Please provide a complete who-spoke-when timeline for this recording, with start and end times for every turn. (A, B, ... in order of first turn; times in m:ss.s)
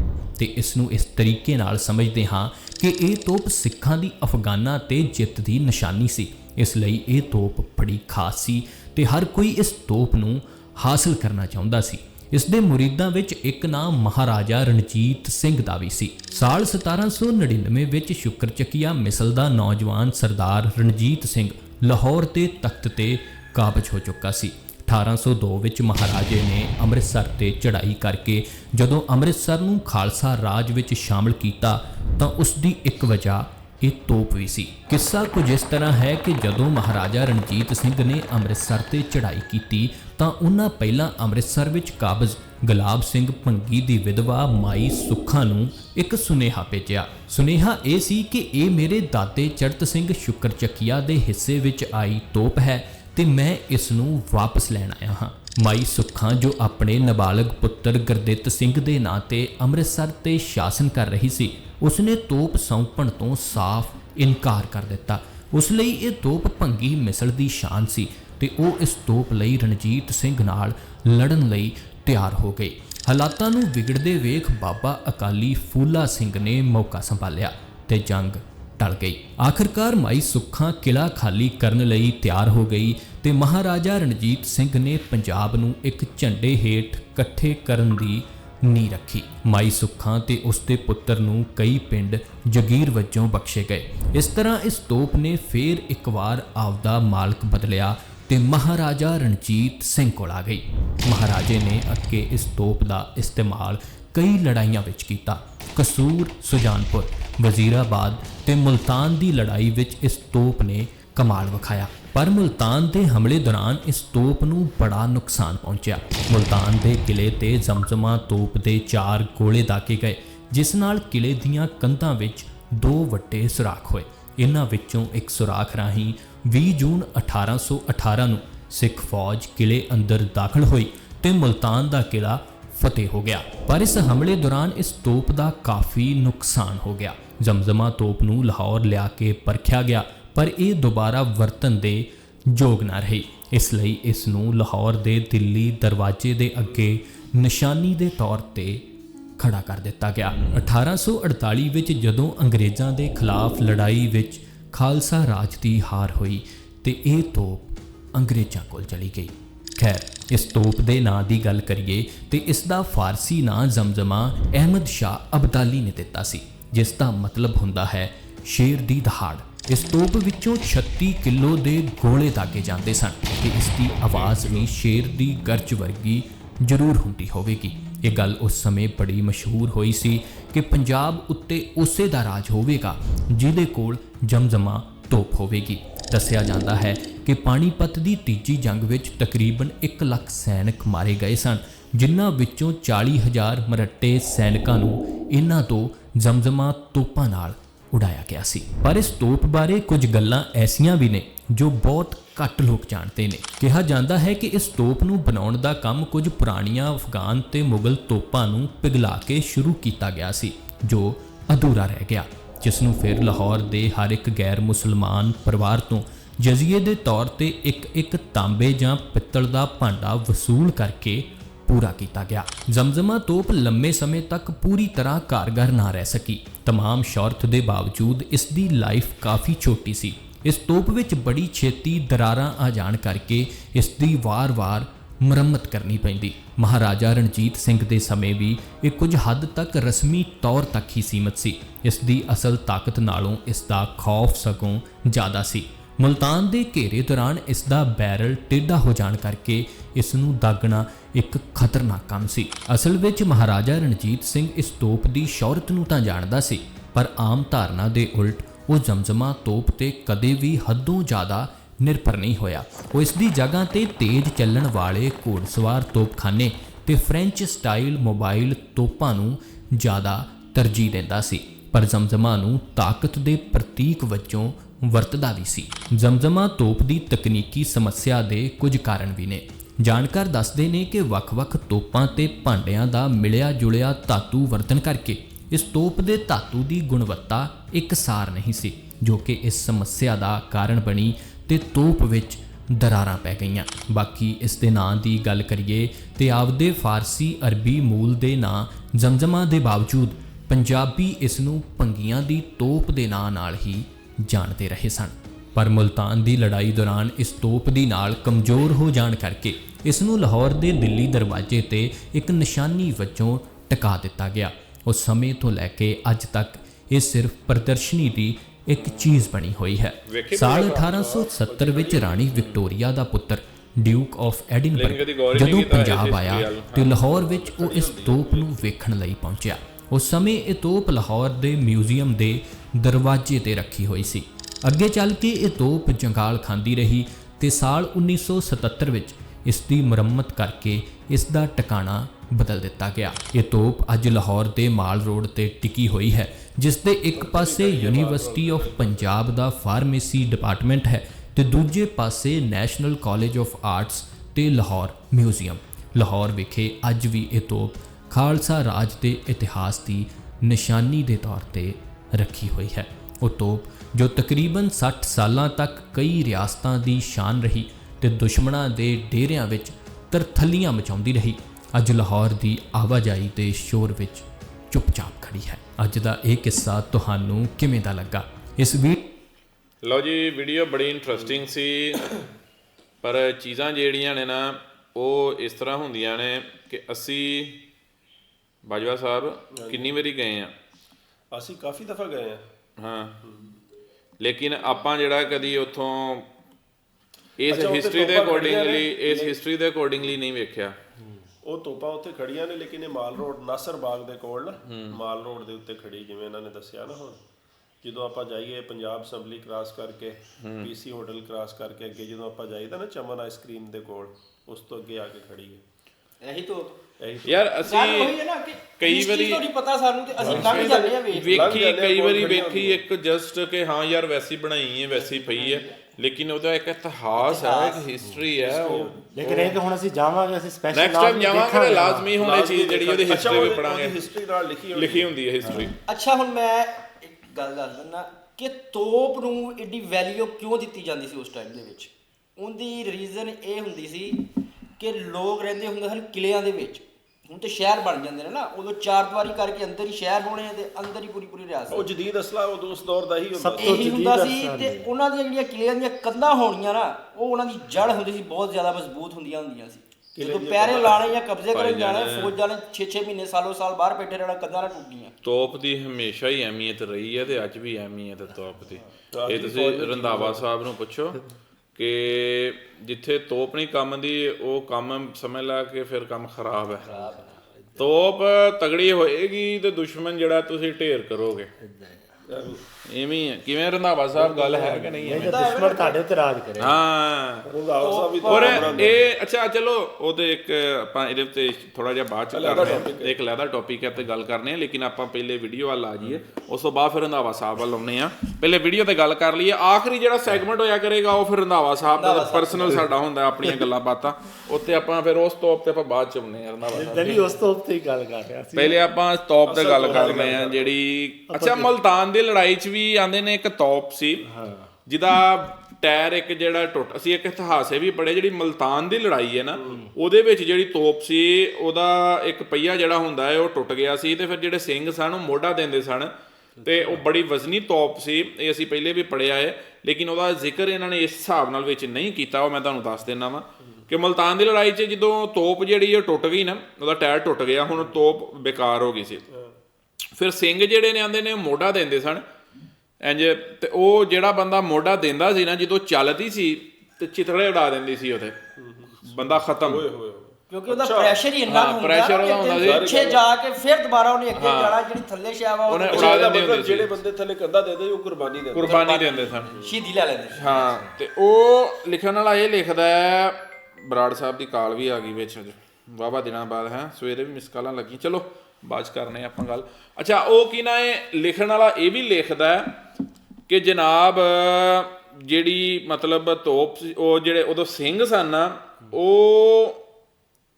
0:00.4-2:28.8 A
2:29.4-6:19.0 A
2:30.3-2:30.6 B
2:54.2-2:54.6 B
5:18.8-5:19.2 B
5:20.1-5:20.7 B
5:20.6-5:22.3 C
5:22.3-5:22.6 B
5:24.8-5:27.0 B
5:26.9-5:28.7 C
5:47.2-5:49.3 C
6:19.8-6:22.1 B
6:23.0-6:27.6 B
6:28.6-6:30.5 B
6:29.5-6:29.9 C
6:31.3-6:32.4 C
6:32.8-6:33.2 B
6:33.2-6:33.6 C
6:34.2-6:36.3 B
6:37.4-6:40.8 B
6:37.5-6:39.4 C
6:41.4-6:47.2 C
6:44.7-6:45.0 B
6:47.8-6:55.6 C
6:50.4-6:50.7 B
6:56.2-6:56.8 D
6:57.0-6:57.5 C
6:57.2-6:58.2 B
6:57.6-7:01.4 D
6:58.8-6:59.4 B
7:00.2-7:00.6 E
7:00.2-7:09.6 B
7:00.3-7:02.8 C
7:05.1-7:05.7 D
7:07.2-7:07.8 D
7:08.3-7:09.1 C
7:09.0-7:12.2 E
7:10.7-7:14.0 B
7:12.2-7:15.1 C
7:14.7-7:15.7 B
7:15.4-7:15.8 E
7:15.8-7:24.3 D
7:24.8-7:31.9 D
7:31.7-7:33.9 C
7:33.3-7:34.9 E
7:33.7-7:45.1 D
7:40.2-7:41.2 C
7:41.5-7:42.3 B
7:45.2-7:51.2 B
7:49.1-7:50.4 C
7:51.8-7:56.9 B
7:56.9-7:57.8 E
7:56.9-7:57.2 D
7:57.8-8:01.5 B
8:01.6-8:02.0 E
8:02.3-8:02.6 C
8:02.8-8:05.5 B
8:04.2-8:06.8 E
8:05.2-8:06.0 D
8:06.6-8:07.5 B
8:07.5-8:09.1 C
8:07.8-8:08.6 D
8:08.2-8:27.4 B
8:12.3-8:13.2 C
8:21.9-8:22.6 D
8:26.7-8:28.8 E
8:28.5-8:34.3 B
8:29.4-8:30.8 C
8:29.9-8:30.2 E
8:31.3-8:31.7 E
8:34.3-8:34.7 E
8:34.9-8:46.1 B
8:46.6-8:47.0 E
8:46.6-8:59.2 B
8:59.3-8:59.6 C
9:00.2-9:02.2 B
9:03.0-9:08.4 B
9:08.6-9:11.3 C
9:09.0-9:09.8 B
9:10.5-9:16.2 D
9:11.4-9:12.9 B
9:12.5-9:13.3 C
9:14.3-9:14.8 B
9:15.7-9:16.9 B
9:15.9-9:18.9 C
9:18.5-9:19.6 B
9:18.7-9:20.8 D
9:20.3-9:32.8 B
9:33.5-9:39.8 B